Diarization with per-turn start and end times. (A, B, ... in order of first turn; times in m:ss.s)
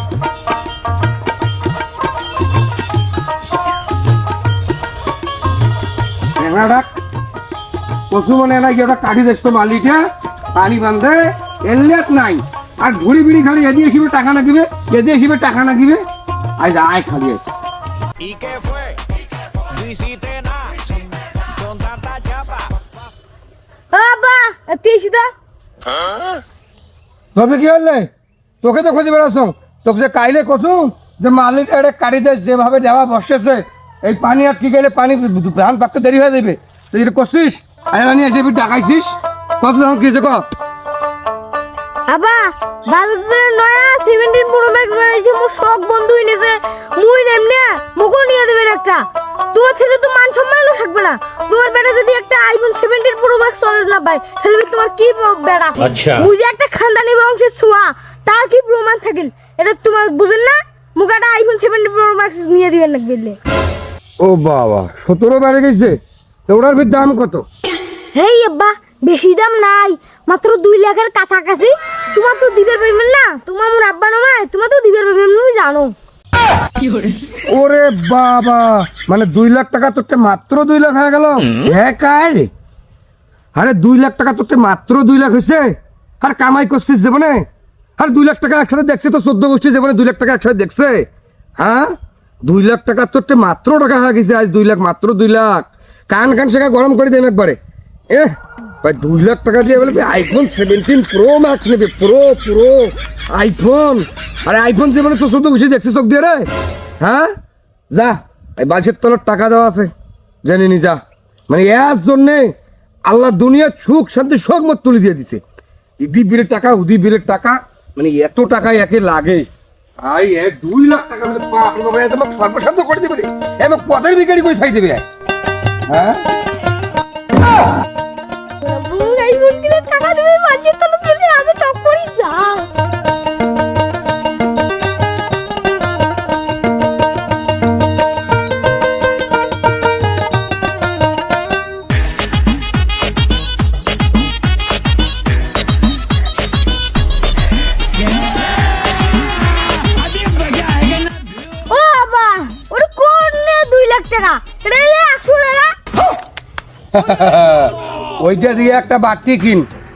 0:06.4-0:06.9 A
0:08.1-0:16.0 A
0:16.6-0:17.5 A
0:18.2-0:19.0 B
0:19.7-0:20.9 B
0:21.5-0:22.7 B
0:23.9-0:25.3 C
0:27.3-0:28.1 A
0:28.6-0:40.4 A
0:42.1-0:49.0 C
0:49.5-1:03.4 C
0:55.8-0:56.3 B
1:04.2-1:07.4 A
1:08.1-1:15.9 C
1:17.5-1:22.5 A
1:23.5-1:27.4 A
1:28.0-1:31.0 A
1:31.6-1:37.6 A
1:38.1-1:46.5 A
1:47.0-1:47.3 A
1:47.9-1:49.9 A
1:50.4-1:52.5 A
1:53.1-1:55.4 A
1:56.0-1:59.5 A
2:00.0-2:05.0 A
2:05.9-2:06.2 A
2:08.6-2:12.7 C
2:31.6-2:35.7 C
2:36.9-2:39.6 A